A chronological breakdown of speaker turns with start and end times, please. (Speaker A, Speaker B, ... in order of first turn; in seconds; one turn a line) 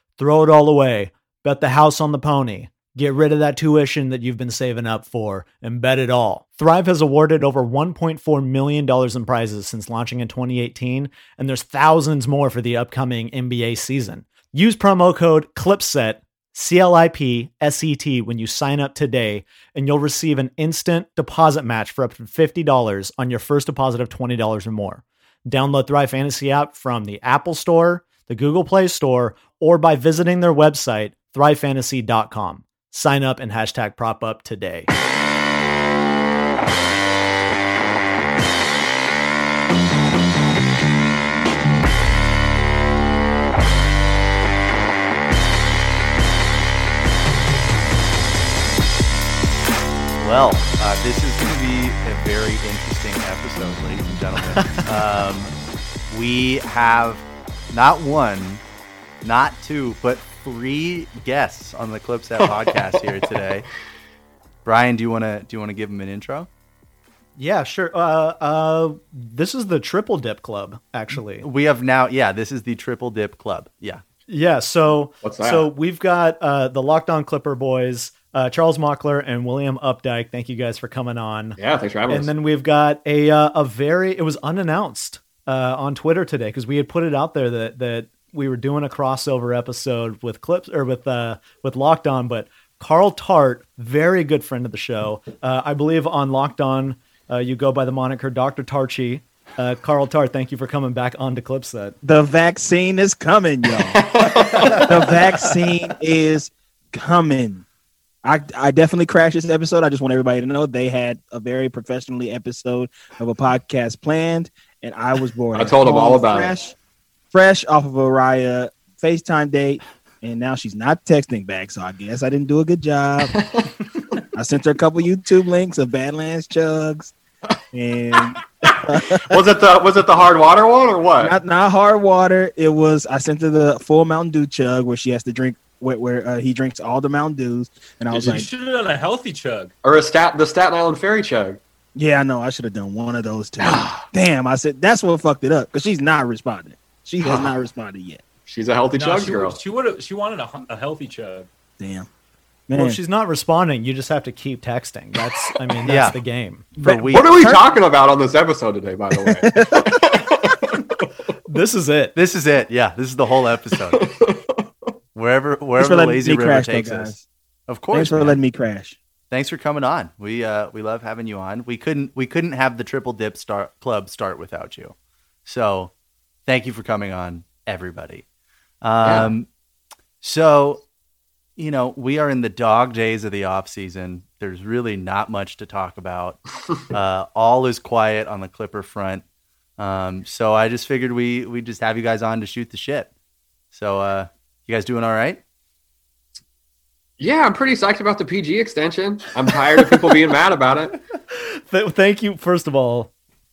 Speaker A: 0.2-34.9
Speaker B: 50.2-55.5
Speaker A: 54.5-54.8
Speaker B: 56.1-58.6
Speaker B: 59.2-63.7
Speaker B: 64.7-66.5
Speaker A: 67.4-71.5
Speaker B: 71.4-74.0
Speaker A: 74.3-81.6
Speaker C: 75.2-75.7
Speaker C: 81.6-82.3
Speaker A: 82.1-102.0
Speaker D: 102.0-104.1
Speaker C: 103.9-105.2
Speaker D: 104.6-107.6
Speaker D: 108.2-116.8
Speaker C: 115.5-116.5
Speaker D: 117.3-123.3
Speaker C: 123.4-123.7
Speaker D: 124.3-127.1
Speaker D: 127.7-129.2
Speaker C: 128.7-131.3
Speaker D: 131.2-138.5
Speaker E: 138.1-139.7
Speaker C: 139.8-141.6
Speaker D: 141.9-148.2
Speaker C: 143.6-144.0
Speaker C: 147.2-147.5
Speaker C: 148.5-149.6
Speaker E: 149.0-151.5
Speaker D: 151.8-152.1
Speaker D: 152.7-153.0
Speaker A: 152.7-156.7
Speaker B: 155.8-156.2
Speaker B: 156.8-157.5
Speaker D: 156.8-157.6
Speaker C: 157.1-161.1
Speaker D: 159.3-160.0
Speaker A: 161.5-162.2
Speaker B: 162.2-164.0
Speaker C: 163.7-164.6
Speaker B: 165.2-167.2
Speaker D: 165.8-167.2
Speaker B: 167.7-168.4
Speaker D: 167.9-169.0
Speaker B: 169.3-174.9
Speaker B: 175.5-175.9
Speaker B: 176.5-178.2
Speaker B: 178.8-179.5
Speaker C: 179.0-179.3
Speaker B: 180.2-180.8
Speaker B: 181.6-189.2
Speaker B: 189.8-193.1
Speaker B: 193.7-195.4
Speaker C: 197.2-201.0
Speaker A: 201.7-203.1